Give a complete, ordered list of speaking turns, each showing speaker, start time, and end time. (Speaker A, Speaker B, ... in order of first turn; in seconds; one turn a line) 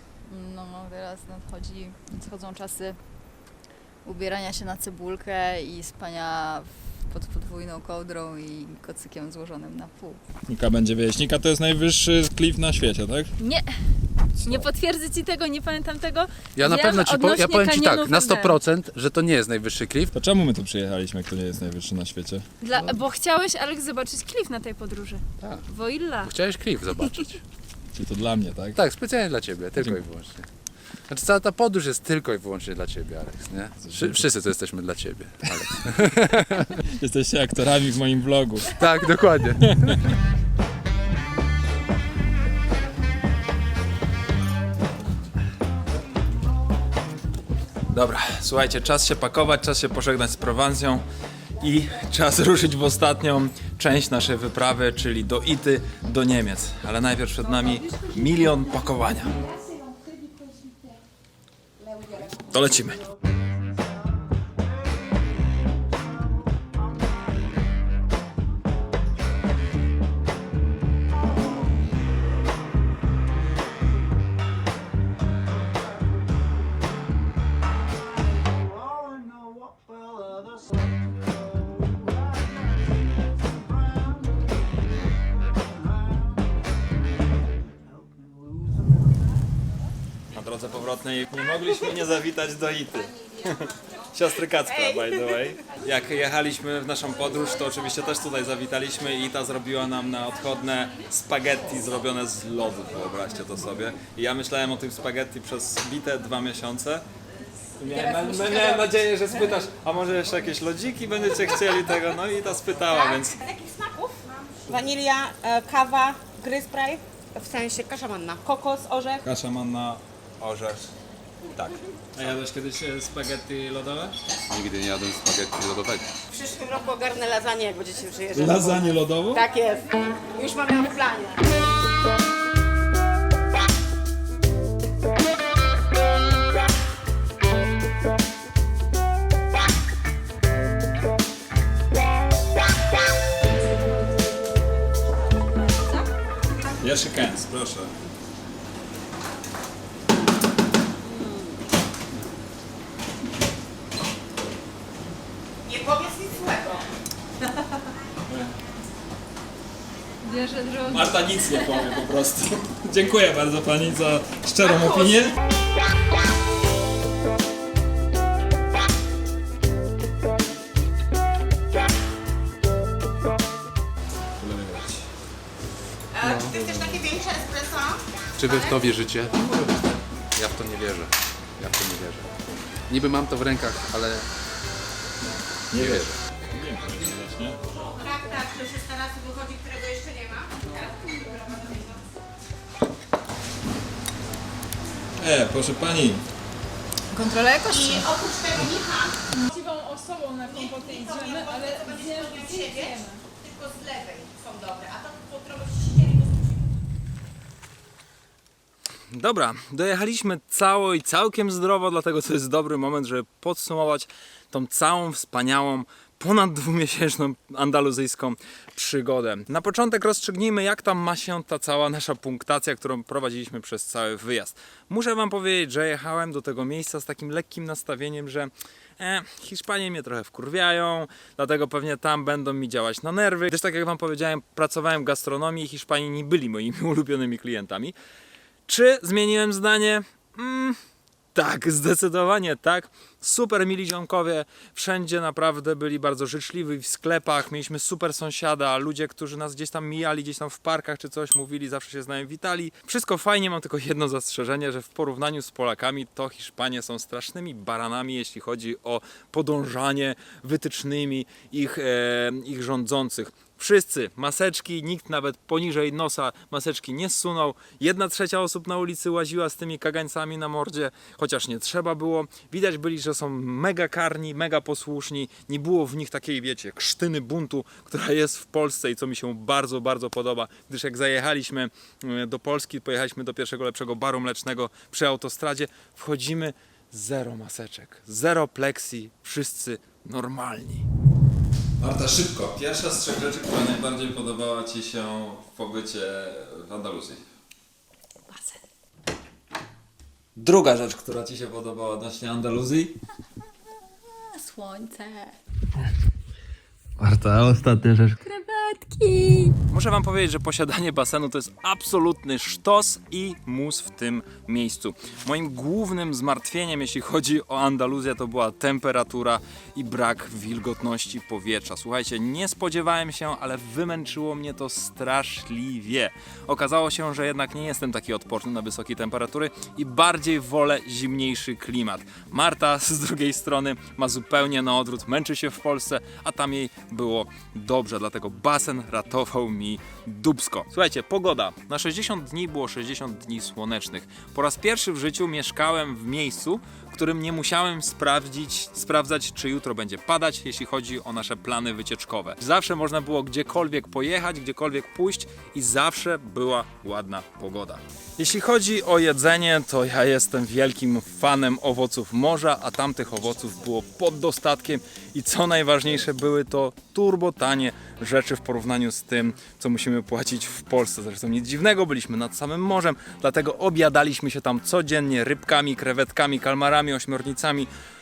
Speaker A: 0.3-3.0
Speaker A: 4.0-10.2
Speaker B: 10.5-13.3
Speaker C: 13.4-13.7
Speaker C: 14.4-18.6
Speaker D: 16.6-20.1
Speaker B: 20.1-22.5
Speaker C: 22.6-26.4
Speaker D: 25.4-25.7
Speaker D: 26.2-27.4
Speaker C: 27.0-27.2
Speaker B: 27.9-28.8
Speaker D: 28.8-30.5
Speaker D: 31.1-36.7
Speaker B: 33.9-34.2
Speaker B: 36.9-38.8
Speaker D: 38.8-40.0
Speaker B: 39.7-40.1
Speaker B: 47.9-51.0
Speaker B: 51.6-59.4
Speaker B: 62.3-63.1
Speaker B: 90.3-107.0
Speaker E: 94.7-95.2
Speaker B: 107.8-113.4
Speaker A: 108.2-108.6
Speaker E: 112.9-119.2
Speaker B: 119.2-120.9
Speaker B: 121.5-124.2
Speaker D: 124.5-126.1
Speaker E: 126.3-128.8
Speaker B: 128.3-129.4
Speaker E: 129.3-131.4
Speaker B: 146.8-147.9
Speaker E: 151.1-151.5
Speaker E: 155.7-156.8
Speaker C: 160.2-161.1
Speaker B: 160.9-165.3
Speaker B: 174.4-175.0
Speaker E: 176.2-178.9
Speaker D: 178.4-179.7
Speaker D: 180.4-182.3
Speaker D: 182.9-184.3
Speaker B: 185.7-187.6
Speaker D: 185.8-186.2
Speaker E: 187.8-192.1
Speaker B: 195.2-196.2
Speaker A: 197.1-197.8
Speaker C: 197.3-198.1
Speaker E: 197.7-199.3
Speaker C: 199.5-203.2
Speaker E: 200.5-206.6
Speaker B: 209.1-237.9
Speaker B: 238.7-240.8
Speaker B: 241.3-290.9
Speaker B: 291.8-297.2
Speaker A: 298.3-298.6
Speaker B: 300.4-302.9
Speaker A: 304.3-305.4
Speaker B: 307.0-308.2
Speaker A: 308.3-309.5
Speaker B: 309.7-377.7